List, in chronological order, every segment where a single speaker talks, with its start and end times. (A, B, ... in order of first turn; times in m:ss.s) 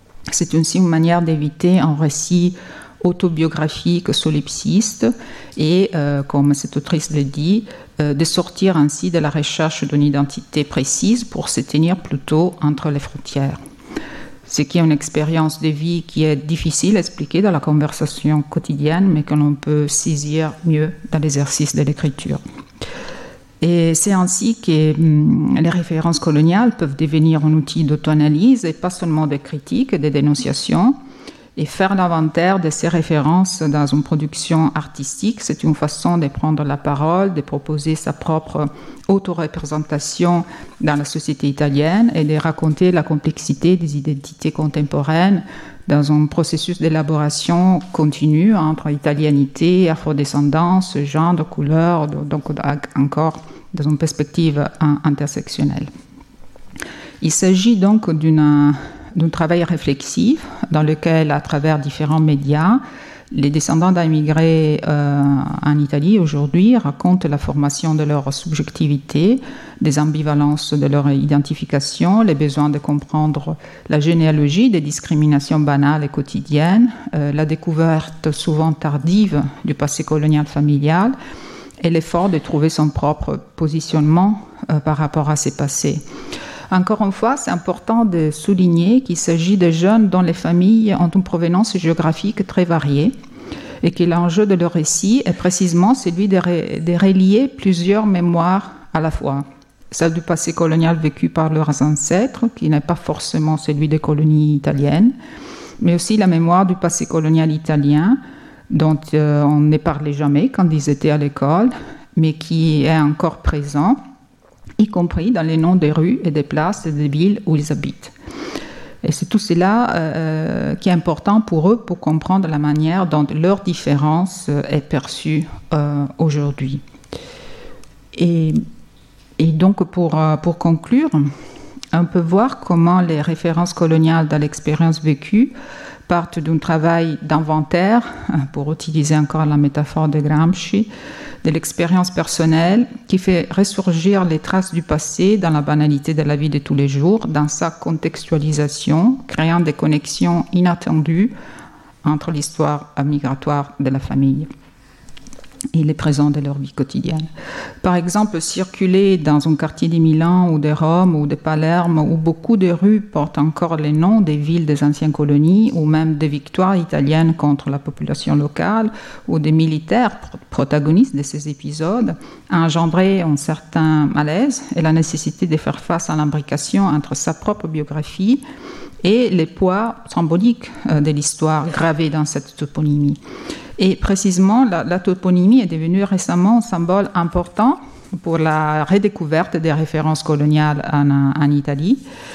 0:00.3-0:13.6 A
0:14.5-0:22.4 A
0:23.6-0:31.0 A
0:31.6-0:55.9 A
0:57.2-1:02.8 A
1:03.3-1:21.2 A
1:21.8-1:26.0 A
1:26.7-1:33.1 A
1:33.8-1:45.1 A
1:45.8-1:48.2 A
1:48.7-1:54.0 A
1:54.8-1:58.1 A
1:59.0-2:06.8 A
2:08.2-2:08.6 A
2:09.4-2:11.3 A
2:11.9-2:15.5 A
2:16.1-2:20.9 A
2:21.4-2:31.3 A
2:32.0-2:34.5 A
2:35.7-2:37.3 A
2:37.8-2:58.4 A
2:59.0-3:03.2 A
3:03.8-3:12.0 A